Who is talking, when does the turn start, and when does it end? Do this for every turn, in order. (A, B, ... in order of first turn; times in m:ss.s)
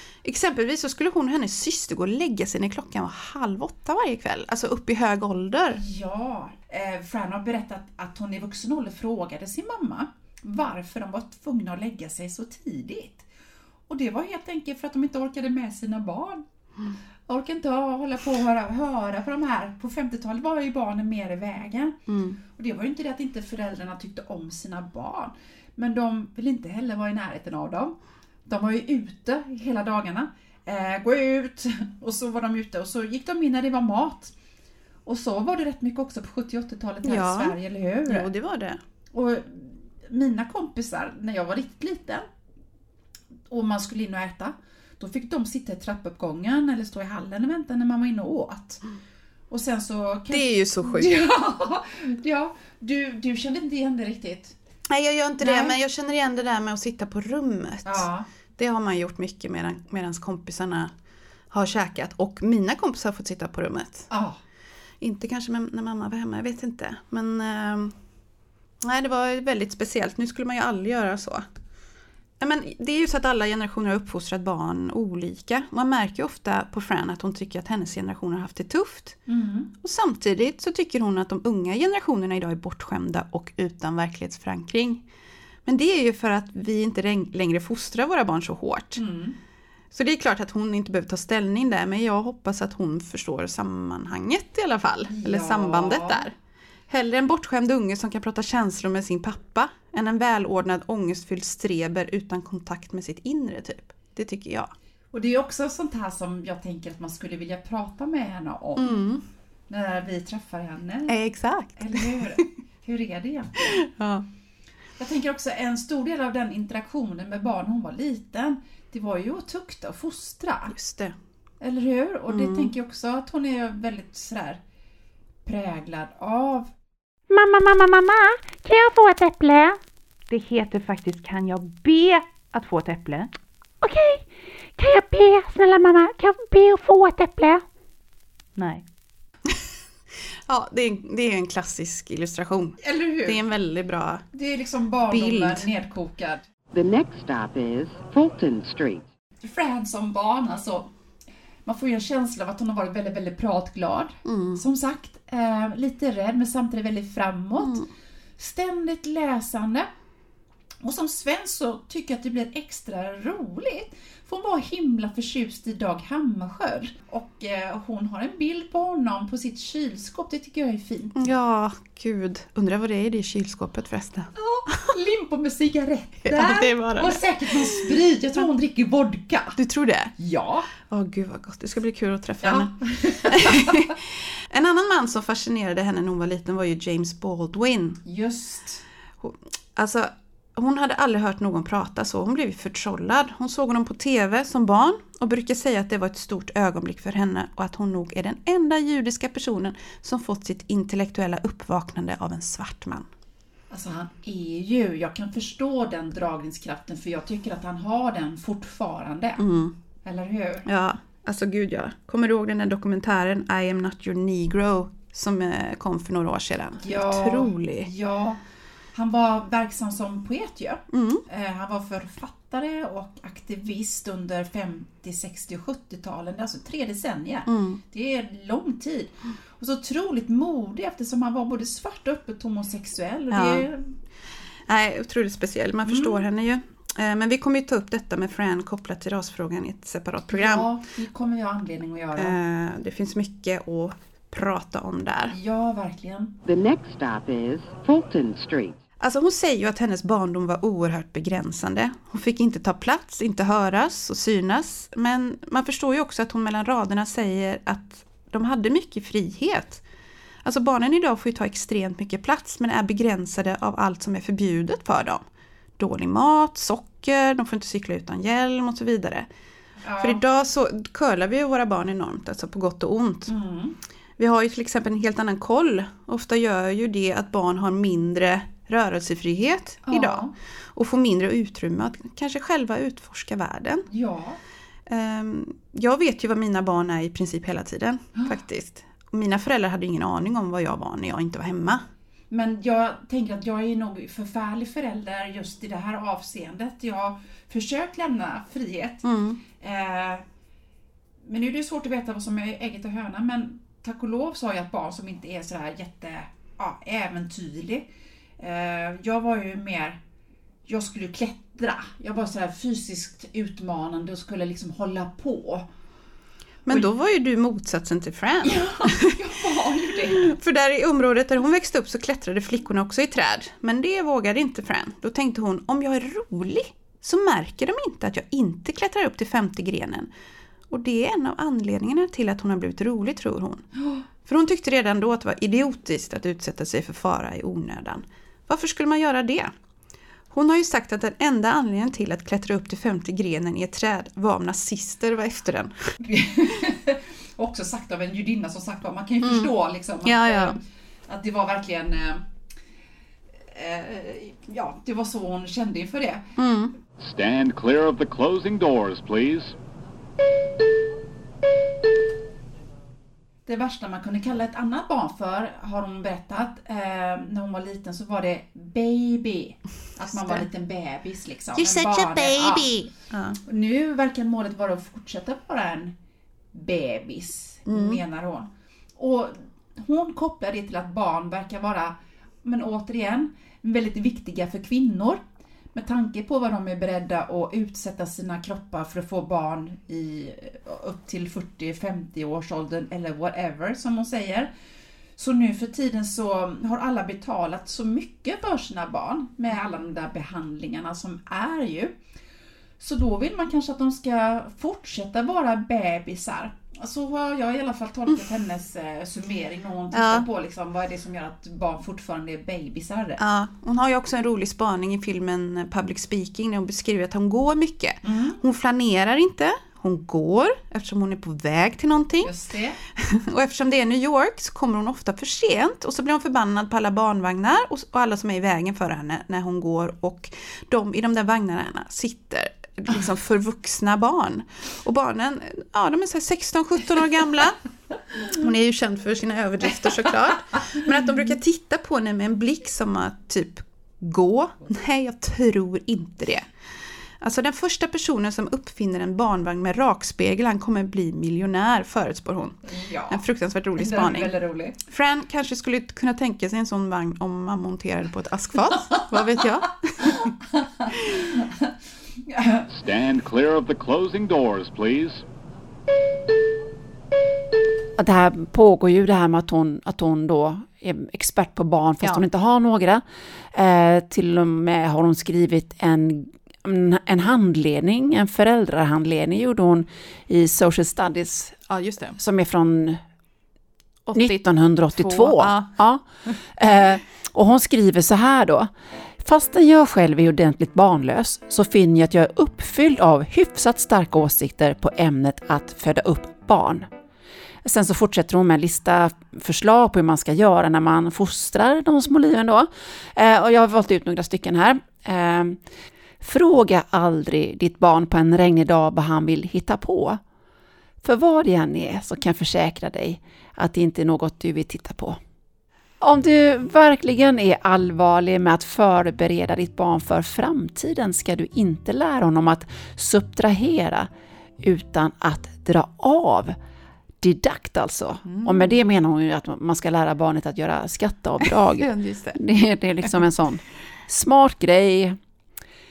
0:00.2-0:05.8 A
0:05.7-0:13.3 B
0:13.9-0:16.4 B
0:17.3-0:22.0 B
0:22.1-0:22.4 A
0:22.6-0:28.0 B
0:28.5-0:34.3 B
0:35.1-0:38.3 B
0:37.0-0:38.8 A
0:39.1-0:42.3 B
0:43.5-0:48.8 B
0:49.5-0:54.6 B
0:50.3-0:51.1 A
0:54.9-0:58.1 A
0:55.4-0:55.8 B
0:57.9-0:58.3 B
0:58.6-1:00.9 A
1:01.5-1:04.1 A
1:04.1-1:04.4 B
1:05.0-1:08.0 A
1:08.8-1:11.4 A
1:12.4-1:19.2 A
1:19.3-1:19.7 B
1:19.8-1:25.0 A
1:25.6-1:29.0 A
1:29.0-1:29.4 B
1:29.9-1:36.3 A
1:35.1-1:36.2 B
1:36.9-1:44.7 A
1:45.1-1:49.0 B
1:48.8-1:49.2 A
1:49.7-1:51.2 B
1:51.1-1:52.2 A
1:51.8-1:53.8 B
1:53.8-1:54.3 A
1:55.0-2:00.7 B
2:00.7-2:01.2 A
2:01.6-2:04.6 B
2:02.3-2:02.7 A
2:05.4-2:06.7 B
2:07.3-2:09.8 C
2:10.3-2:13.3 A
2:13.8-2:17.6 C
2:20.5-2:24.2 A
2:22.8-2:23.4 B
2:24.3-2:26.4 B
2:25.1-2:25.7 A
2:26.7-2:29.1 D
2:29.4-2:30.9 B
2:31.7-2:37.9 B
2:34.2-2:34.6 A
2:37.6-2:37.9 A
2:38.4-2:39.9 B
2:40.8-2:51.2 B
2:51.2-2:54.3 A
2:54.4-2:59.6 B
2:56.2-2:57.9 A
2:59.6-3:00.1 A
3:00.2-3:00.7 B
3:00.8-3:08.0 A
3:02.4-3:03.9 B
3:08.0-3:08.8 B
3:09.2-3:23.1 A
3:23.7-3:29.4 B
3:29.4-3:29.8 A
3:30.0-3:30.7 B
3:30.7-3:37.9 A
3:36.8-3:38.4 B
3:38.9-3:53.9 B
3:40.9-3:41.2 A
3:47.5-3:47.8 A
3:53.3-3:53.7 A
3:54.7-4:00.7 A
3:55.8-3:56.2 B
4:00.3-4:02.4 B
4:02.2-4:05.4 A
4:05.3-4:06.4 B
4:06.4-4:08.8 D
4:09.0-4:19.8 A
4:20.4-4:25.2 A
4:25.8-4:29.3 A
4:29.8-4:30.2 B
4:30.0-4:33.3 A
4:33.3-4:33.8 B
4:34.2-4:43.9 A
4:39.9-4:40.3 B
4:43.9-4:44.4 B
4:44.9-4:51.8 A
4:52.3-4:59.1 B
4:59.0-4:59.4 A
4:59.6-5:00.2 B
5:01.2-5:07.9 B
5:08.4-5:10.0 B
5:10.7-5:15.7 B
5:16.7-5:19.1 A
5:18.4-5:20.4 B
5:20.2-5:30.1 A
5:30.7-5:33.7 A
5:34.2-5:39.5 A
5:40.3-5:45.9 A
5:46.0-5:52.2 B
5:49.2-5:49.5 A
5:50.0-5:50.6 A
5:53.5-5:56.3 B
5:56.4-5:56.7 A
5:57.0-5:59.6 E
6:03.5-6:12.7 B
6:10.1-6:10.4 A
6:11.6-6:12.9 C
6:13.1-6:13.4 A
6:13.4-6:16.0 B
6:16.5-6:25.2 B
6:17.7-6:18.0 A
6:25.8-6:34.5 B
6:35.2-6:42.0 B
6:42.8-6:53.2 B
6:49.9-6:50.3 A
6:53.2-7:02.3 A
6:58.0-6:58.4 B
7:02.2-7:02.8 B
7:03.0-7:17.6 A
7:18.2-7:26.5 A
7:27.2-7:34.3 A
7:32.7-7:33.2 B
7:33.8-7:34.8 B
7:34.8-7:40.3 A
7:40.0-7:41.7 B
7:40.9-7:41.2 A
7:42.3-7:42.7 B
7:42.7-7:45.2 E
7:48.0-8:01.6 F
7:52.0-7:52.3 A
8:01.7-8:02.2 A
8:02.2-8:03.0 F
8:04.1-8:06.4 A
8:04.2-8:06.0 F
8:06.6-8:16.9 F
8:17.6-8:25.6 F
8:26.2-8:30.2 F
8:31.0-8:35.2 F
8:36.0-8:44.1 F
8:44.6-8:46.6 F
8:47.2-8:55.2 F
8:48.2-8:48.8 A
8:51.4-8:52.4 A